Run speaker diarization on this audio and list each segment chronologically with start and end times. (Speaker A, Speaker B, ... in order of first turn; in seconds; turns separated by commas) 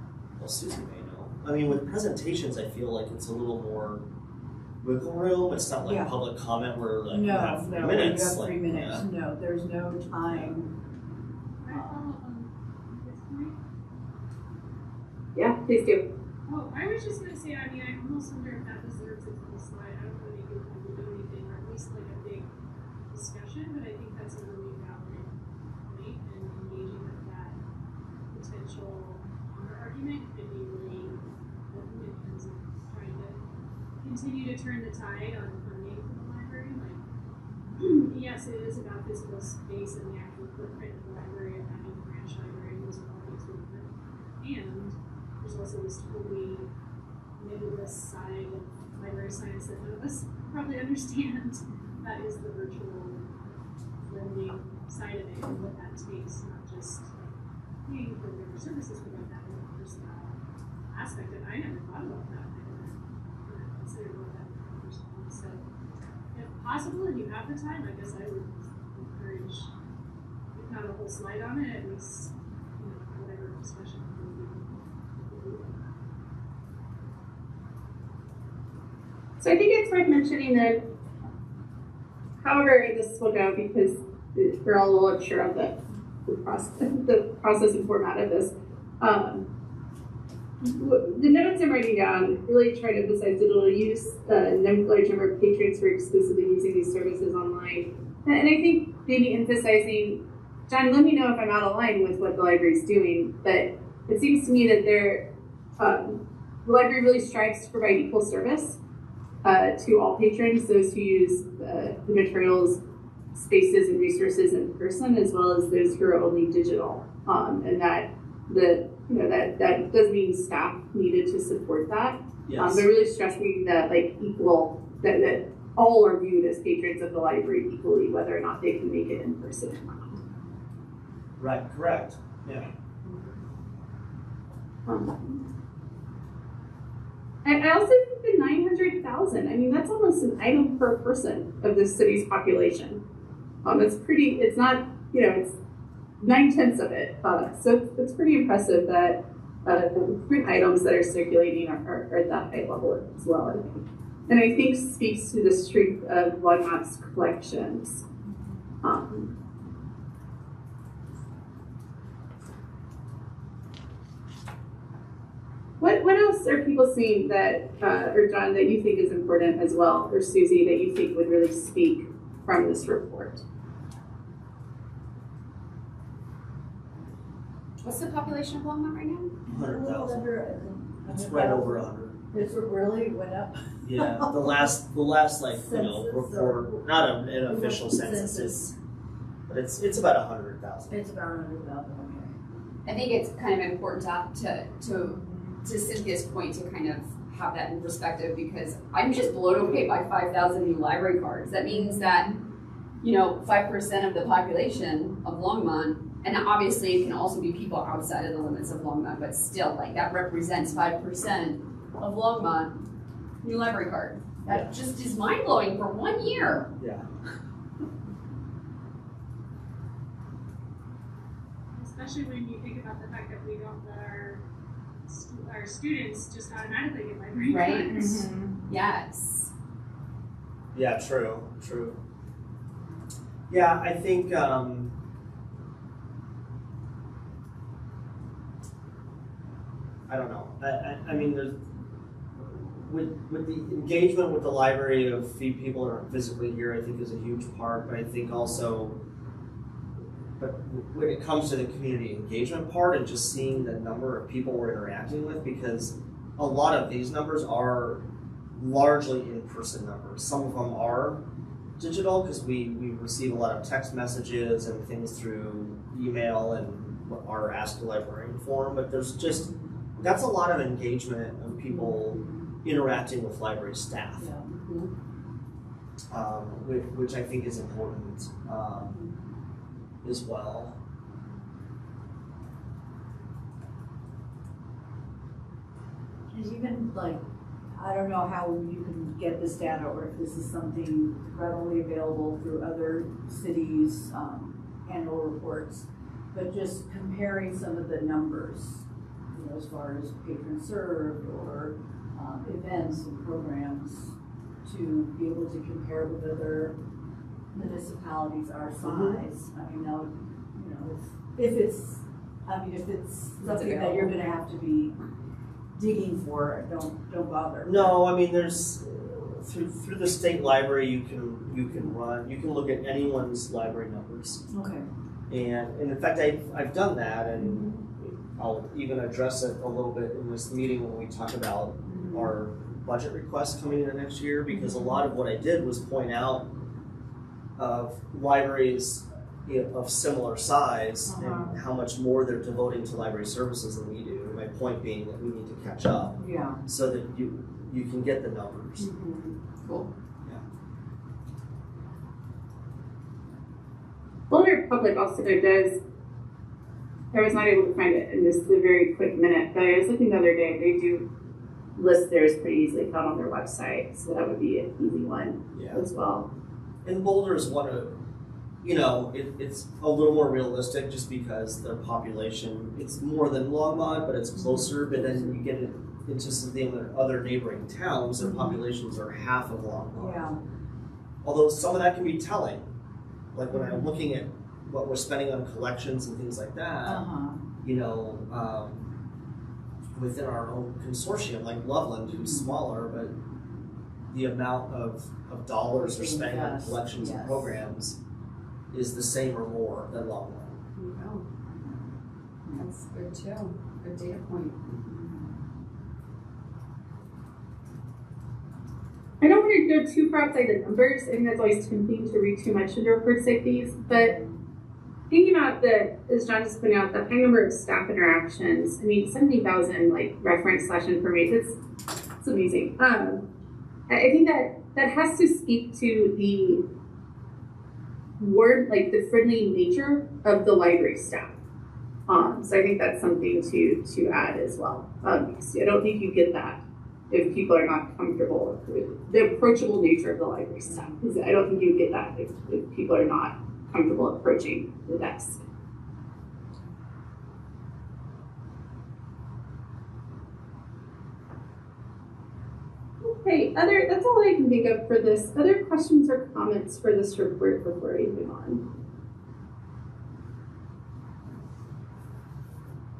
Speaker A: 0.4-4.0, Speaker A: 4.8-9.1, Speaker B: 5.8-6.1, Speaker B: 7.1-10.7, Speaker A: 10.2-10.6, Speaker C: 11.6-13.6, Speaker B: 11.7-11.9, Speaker D: 15.3-16.0, Speaker C: 16.5-22.5, Speaker C: 23.1-25.3, Speaker C: 25.9-27.6, Speaker C: 28.3-31.2, Speaker C: 31.7-33.4, Speaker C: 34.0-37.0, Speaker C: 37.8-46.7, Speaker C: 47.4-53.2, Speaker C: 54.1-57.3, Speaker C: 57.9-60.4, Speaker C: 60.9-62.9, Speaker C: 63.4-65.6, Speaker C: 66.3-69.7, Speaker C: 70.5-75.8, Speaker D: 79.4-80.8, Speaker D: 82.4-89.5, Speaker D: 90.6-105.2, Speaker D: 105.8-108.8, Speaker D: 109.4-112.8, Speaker D: 113.3-130.2, Speaker A: 122.5-122.9, Speaker A: 131.4-132.7, Speaker D: 134.9-135.4, Speaker D: 137.4-143.0, Speaker D: 143.6-145.5, Speaker D: 146.2-158.0, Speaker D: 158.8-159.3, Speaker D: 165.8-173.4, Speaker E: 177.8-179.3, Speaker A: 179.5-180.2, Speaker B: 179.5-184.7, Speaker A: 181.0-182.2, Speaker A: 183.8-188.7, Speaker B: 185.5-188.6, Speaker A: 189.5-191.0, Speaker B: 190.9-192.4, Speaker E: 192.8-202.4, Speaker B: 195.2-195.6, Speaker B: 201.7-202.4, Speaker E: 203.0-212.9, Speaker E: 213.4-216.7, Speaker A: 214.5-214.7, Speaker A: 216.8-217.1, Speaker C: 221.7-224.4, Speaker C: 225.1-228.1, Speaker E: 227.5-229.5, Speaker B: 227.9-228.5, Speaker A: 230.7-232.0, Speaker A: 233.5-235.0, Speaker A: 240.1-241.6, Speaker A: 242.4-249.0, Speaker A: 250.4-258.0, Speaker A: 258.6-261.2, Speaker A: 261.8-274.3, Speaker B: 274.2-274.5, Speaker E: 274.5-274.9, Speaker A: 276.1-279.0, Speaker A: 280.0-280.7, Speaker B: 286.3-287.2, Speaker B: 287.8-304.1, Speaker B: 304.6-306.7, Speaker B: 307.5-314.9, Speaker A: 308.8-309.2, Speaker E: 313.4-314.2, Speaker B: 315.8-317.9, Speaker A: 317.6-324.4, Speaker B: 324.5-324.9, Speaker A: 325.3-336.5, Speaker B: 331.9-332.3, Speaker B: 334.5-335.0, Speaker A: 337.6-348.9, Speaker B: 341.1-341.6, Speaker B: 346.2-346.6, Speaker B: 349.0-349.3, Speaker E: 349.6-349.9, Speaker D: 354.3-355.8, Speaker D: 357.1-361.1, Speaker D: 361.8-366.3, Speaker A: 365.5-365.8, Speaker A: 366.8-367.9, Speaker A: 368.6-380.3, Speaker B: 374.3-375.0, Speaker B: 378.2-378.6, Speaker B: 380.0-380.4, Speaker A: 381.2-382.7, Speaker A: 383.3-387.1, Speaker B: 383.5-383.9, Speaker B: 386.8-387.4, Speaker A: 387.6-388.9, Speaker A: 389.9-393.1, Speaker B: 392.1-392.5, Speaker A: 394.1-398.0, Speaker B: 395.8-397.5, Speaker A: 398.7-400.6, Speaker E: 400.8-401.3, Speaker B: 401.5-401.8, Speaker E: 402.5-404.6, Speaker B: 404.9-405.3, Speaker D: 409.2-414.1, Speaker B: 413.9-414.3, Speaker D: 415.1-421.6, Speaker D: 422.2-423.2, Speaker D: 423.9-426.6, Speaker D: 428.2-431.3, Speaker D: 432.1-445.4, Speaker D: 453.0-458.6